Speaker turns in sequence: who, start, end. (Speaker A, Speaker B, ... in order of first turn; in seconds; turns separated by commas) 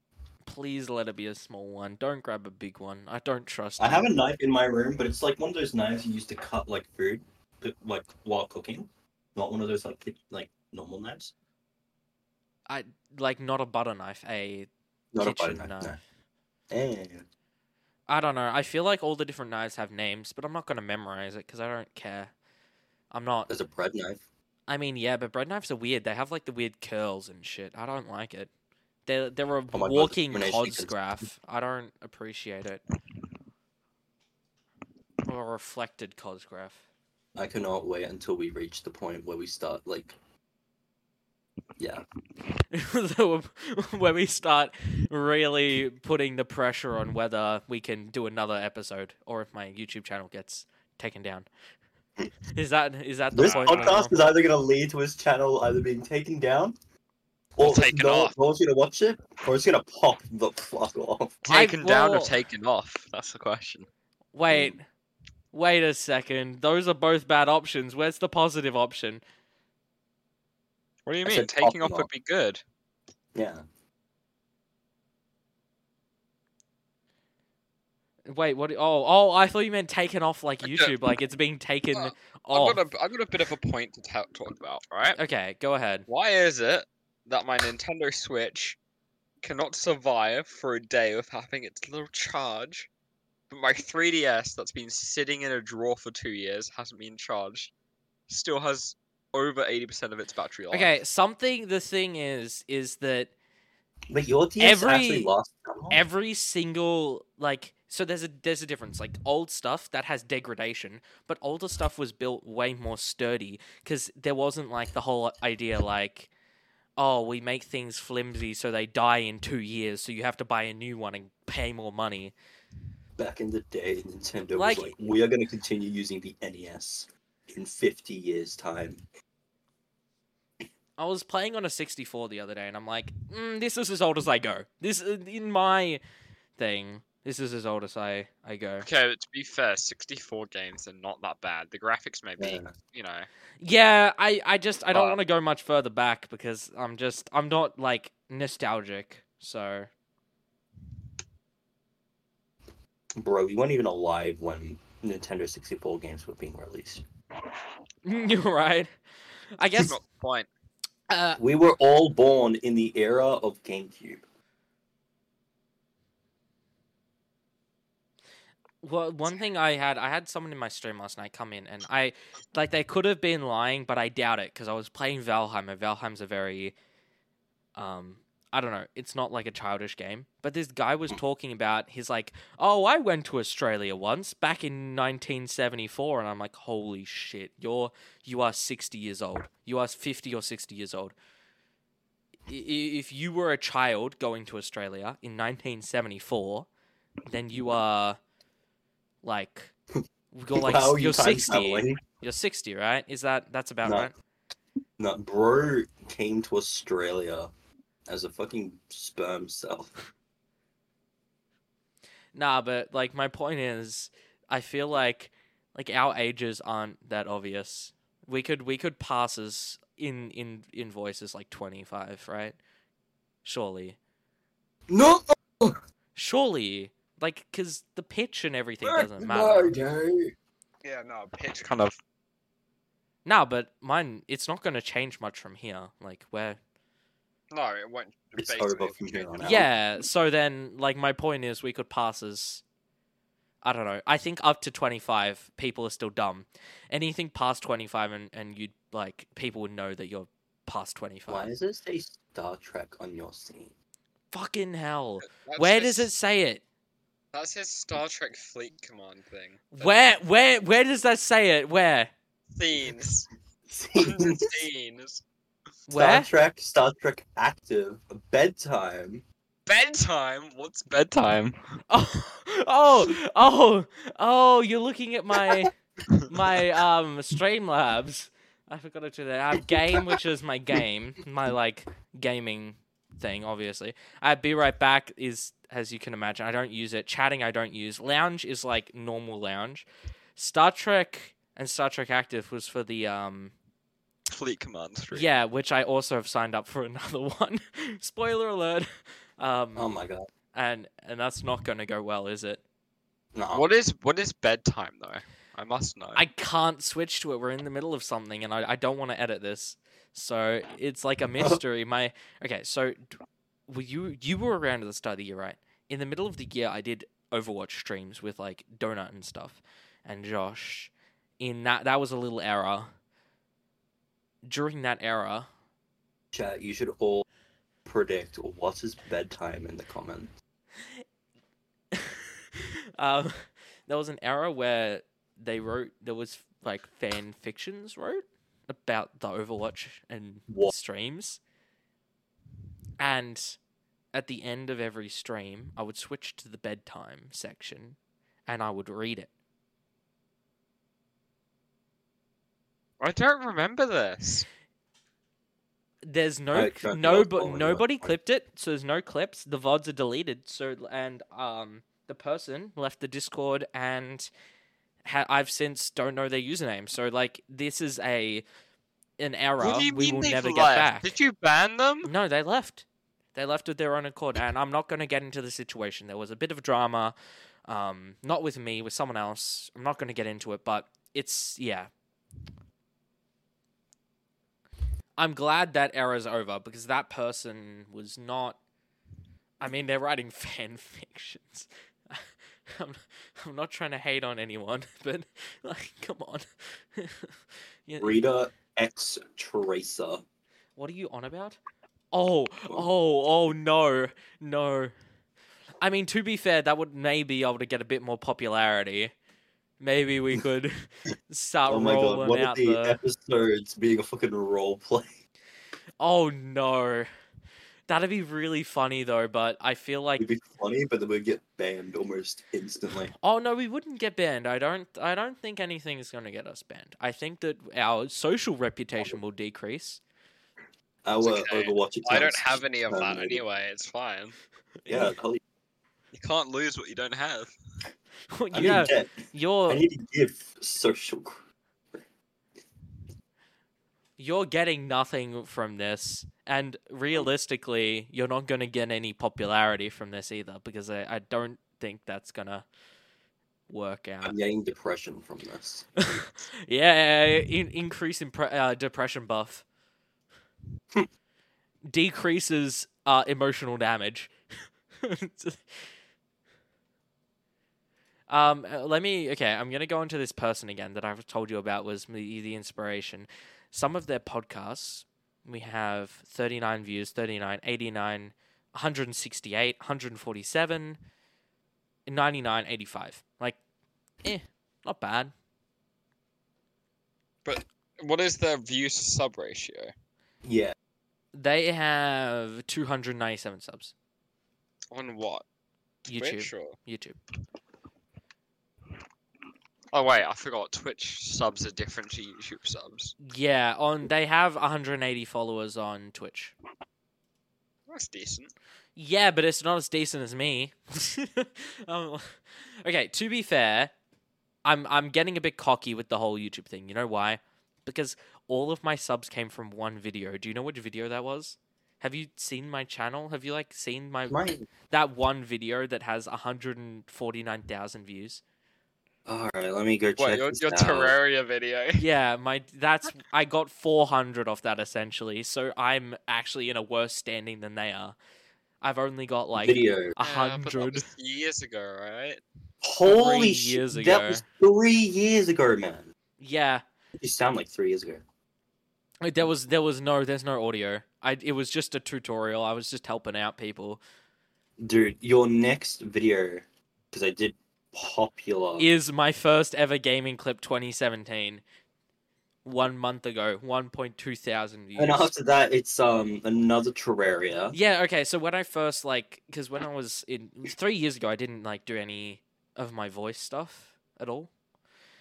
Speaker A: 0.5-4.1, Speaker B: 3.8-11.3, Speaker A: 12.7-14.7, Speaker B: 15.1-16.0, Speaker A: 15.2-16.0, Speaker B: 16.7-17.3, Speaker A: 18.1-22.3, Speaker A: 23.1-23.5, Speaker B: 23.5-24.2, Speaker A: 24.7-28.5, Speaker A: 29.1-32.8, Speaker B: 29.7-31.0, Speaker A: 35.3-36.8, Speaker B: 37.4-40.2, Speaker B: 41.8-42.0, Speaker A: 42.7-51.5, Speaker A: 52.5-54.1, Speaker B: 53.3-56.7, Speaker C: 53.4-54.0, Speaker B: 57.6-61.4, Speaker C: 57.6-58.3, Speaker C: 61.5-63.9, Speaker A: 61.5-62.3, Speaker A: 64.3-64.8, Speaker B: 64.5-64.8, Speaker A: 65.5-69.2, Speaker C: 71.1-72.6, Speaker B: 71.2-72.1, Speaker B: 73.3-73.6, Speaker A: 78.3-82.8, Speaker C: 80.6-80.9, Speaker C: 82.0-85.2, Speaker A: 85.2-86.0, Speaker C: 86.1-88.8, Speaker C: 89.4-92.9, Speaker C: 93.5-97.7, Speaker C: 98.3-100.9, Speaker A: 100.7-103.3, Speaker B: 104.1-106.0, Speaker A: 104.6-105.3, Speaker A: 105.9-116.3, Speaker A: 117.0-122.3, Speaker B: 123.2-129.0, Speaker A: 124.6-124.9, Speaker A: 131.0-136.0, Speaker A: 136.6-138.9, Speaker C: 138.8-143.3, Speaker B: 142.4-142.7, Speaker A: 143.6-149.9, Speaker B: 153.2-157.0, Speaker A: 158.1-158.9, Speaker A: 159.6-160.0, Speaker C: 159.7-160.5, Speaker A: 161.1-161.4, Speaker B: 161.4-164.2, Speaker A: 168.8-176.8, Speaker A: 177.8-191.1, Speaker A: 192.5-196.7, Speaker A: 197.3-198.2, Speaker A: 199.2-199.7, Speaker A: 200.3-204.1, Speaker B: 200.5-202.0, Speaker B: 203.8-204.1, Speaker B: 205.0-207.5, Speaker B: 208.1-209.9, Speaker A: 212.3-222.6, Speaker A: 223.4-224.0, Speaker B: 224.9-225.8, Speaker A: 226.2-229.7, Speaker B: 228.8-230.3, Speaker C: 230.8-232.0, Speaker A: 233.3-236.6, Speaker C: 237.5-239.6, Speaker B: 238.4-239.7, Speaker A: 239.4-242.6, Speaker A: 243.6-251.5, Speaker B: 251.3-253.7, Speaker A: 254.3-256.6, Speaker C: 255.3-256.1, Speaker C: 257.3-260.1, Speaker A: 259.7-262.1, Speaker C: 262.6-263.3, Speaker B: 263.7-264.7, Speaker C: 264.0-265.2, Speaker A: 265.9-266.3, Speaker B: 265.9-269.2, Speaker C: 269.7-271.6, Speaker A: 271.9-293.5, Speaker B: 279.7-280.1, Speaker C: 294.3-295.3, Speaker A: 295.1-300.0, Speaker B: 299.8-300.3, Speaker A: 300.5-302.6, Speaker B: 303.4-303.7, Speaker C: 303.5-306.2, Speaker A: 306.2-322.9, Speaker A: 324.4-325.5, Speaker B: 326.3-327.2, Speaker B: 327.9-330.3, Speaker A: 331.9-341.4, Speaker A: 343.0-343.6, Speaker A: 344.1-349.3, Speaker C: 353.0-354.5, Speaker A: 356.1-364.3, Speaker B: 356.5-358.1, Speaker A: 365.0-368.4, Speaker A: 369.2-371.1, Speaker C: 369.6-372.1, Speaker A: 372.0-377.1, Speaker A: 377.7-381.9, Speaker A: 385.2-388.6, Speaker A: 389.6-398.2, Speaker B: 398.0-400.2, Speaker A: 400.8-401.6, Speaker A: 402.1-404.9, Speaker A: 405.8-409.1, Speaker A: 409.8-413.0, Speaker B: 411.7-415.1, Speaker A: 416.0-417.1, Speaker A: 417.9-420.2, Speaker B: 420.2-423.1, Speaker A: 423.2-430.0, Speaker B: 431.0-433.4, Speaker C: 431.2-434.4, Speaker A: 434.8-435.1, Speaker B: 434.9-435.4, Speaker C: 436.1-437.5, Speaker A: 438.3-439.9, Speaker B: 438.5-442.0, Speaker A: 444.2-452.7, Speaker A: 453.7-454.3, Speaker B: 454.2-456.2, Speaker A: 456.0-459.6, Speaker A: 461.9-464.3, Speaker A: 465.0-465.9, Speaker A: 468.3-481.0, Speaker A: 482.1-483.6, Speaker A: 484.2-485.3, Speaker C: 487.4-489.9, Speaker B: 490.4-490.7, Speaker A: 491.3-493.9, Speaker C: 494.9-495.4, Speaker A: 496.1-497.2, Speaker C: 496.2-496.8, Speaker C: 499.9-503.1, Speaker A: 503.2-506.5, Speaker C: 507.9-508.5, Speaker A: 509.0-513.9, Speaker A: 514.6-528.4, Speaker B: 524.3-524.7, Speaker B: 529.3-531.2, Speaker C: 530.2-532.0, Speaker A: 532.0-538.2, Speaker A: 538.8-541.0, Speaker B: 539.6-540.2, Speaker C: 540.2-542.4, Speaker B: 542.8-546.1, Speaker A: 543.0-544.4, Speaker A: 546.4-546.8, Speaker B: 547.2-548.2, Speaker A: 549.2-554.0, Speaker B: 554.8-558.9, Speaker A: 558.8-561.6, Speaker A: 562.6-565.3, Speaker B: 565.0-567.8, Speaker A: 567.7-574.5